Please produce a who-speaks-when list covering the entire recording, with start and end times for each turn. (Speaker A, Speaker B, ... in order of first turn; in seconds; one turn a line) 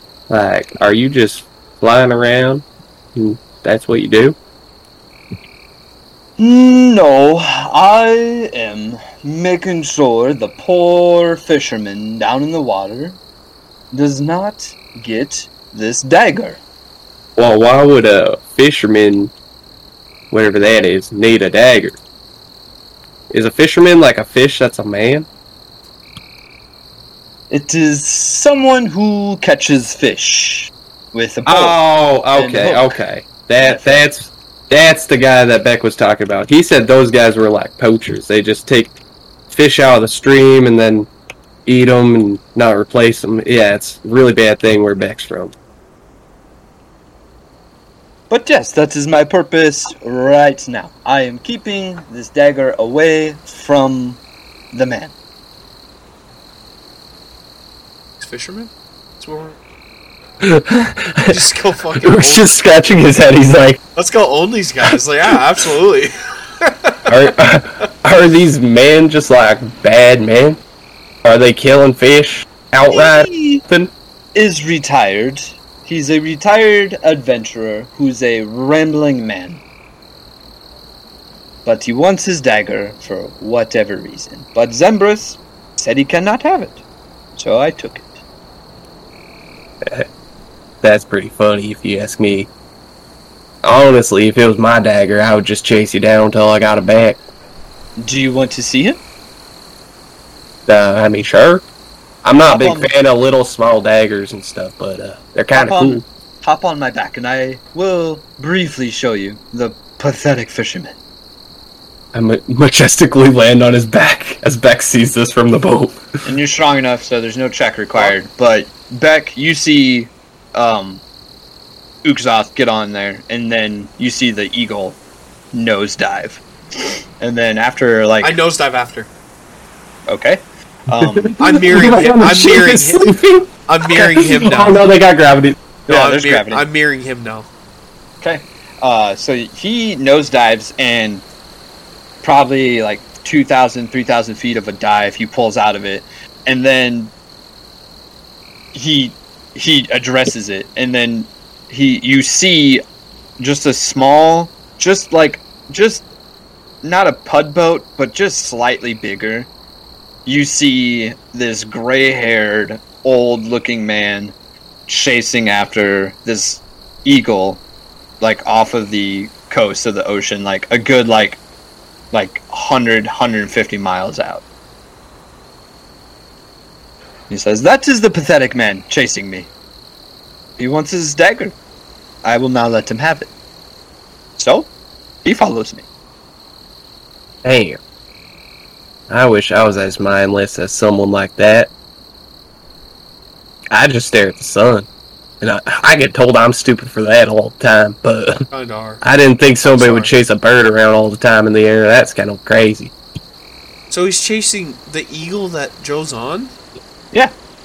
Speaker A: 0.3-4.4
Speaker B: 6.4-13.2
Speaker B: 13.9-16.6
Speaker A: 17.4-19.3
Speaker A: 20.3-22.0
Speaker A: 23.3-25.3
Speaker B: 27.5-31.8
Speaker A: 31.4-39.0
Speaker B: 32.3-33.0
Speaker B: 33.6-34.1
Speaker A: 39.5-41.1
Speaker A: 41.6-45.5
Speaker B: 48.3-54.2
Speaker B: 54.7-55.1
Speaker C: 58.2-59.6
Speaker A: 60.4-61.4
Speaker C: 61.3-62.5
Speaker A: 62.0-63.8
Speaker C: 63.9-67.3
Speaker A: 67.1-70.6
Speaker A: 71.2-73.9
Speaker B: 72.9-73.6
Speaker B: 74.3-79.6
Speaker B: 81.7-86.8
Speaker B: 87.4-88.2
Speaker A: 89.8-90.1
Speaker A: 90.8-92.5
Speaker A: 93.6-97.2
Speaker B: 98.0-99.0
Speaker A: 100.7-101.6
Speaker A: 102.2-106.0
Speaker B: 102.4-102.9
Speaker B: 105.5-110.9
Speaker A: 112.1-116.0
Speaker B: 116.2-121.0
Speaker B: 122.0-125.0
Speaker B: 125.5-128.4
Speaker C: 128.2-129.1
Speaker B: 130.1-131.4
Speaker A: 131.0-135.6
Speaker C: 131.4-133.1
Speaker C: 133.7-134.8
Speaker B: 135.9-136.7
Speaker C: 135.9-137.5
Speaker B: 138.2-141.2
Speaker B: 142.2-147.1
Speaker B: 148.7-152.8
Speaker B: 153.4-156.0
Speaker B: 156.8-159.5
Speaker B: 160.2-164.3
Speaker B: 164.9-167.6
Speaker B: 168.2-171.4
Speaker B: 172.1-174.4
Speaker B: 177.3-179.5
Speaker B: 180.6-181.5
Speaker B: 182.2-183.3
Speaker B: 184.4-184.7
Speaker B: 185.2-185.8
Speaker A: 187.4-187.8
Speaker A: 189.1-191.7
Speaker A: 193.7-194.9
Speaker A: 195.4-198.5
Speaker C: 198.5-199.0
Speaker A: 199.0-202.9
Speaker C: 199.6-200.1
Speaker C: 203.9-206.5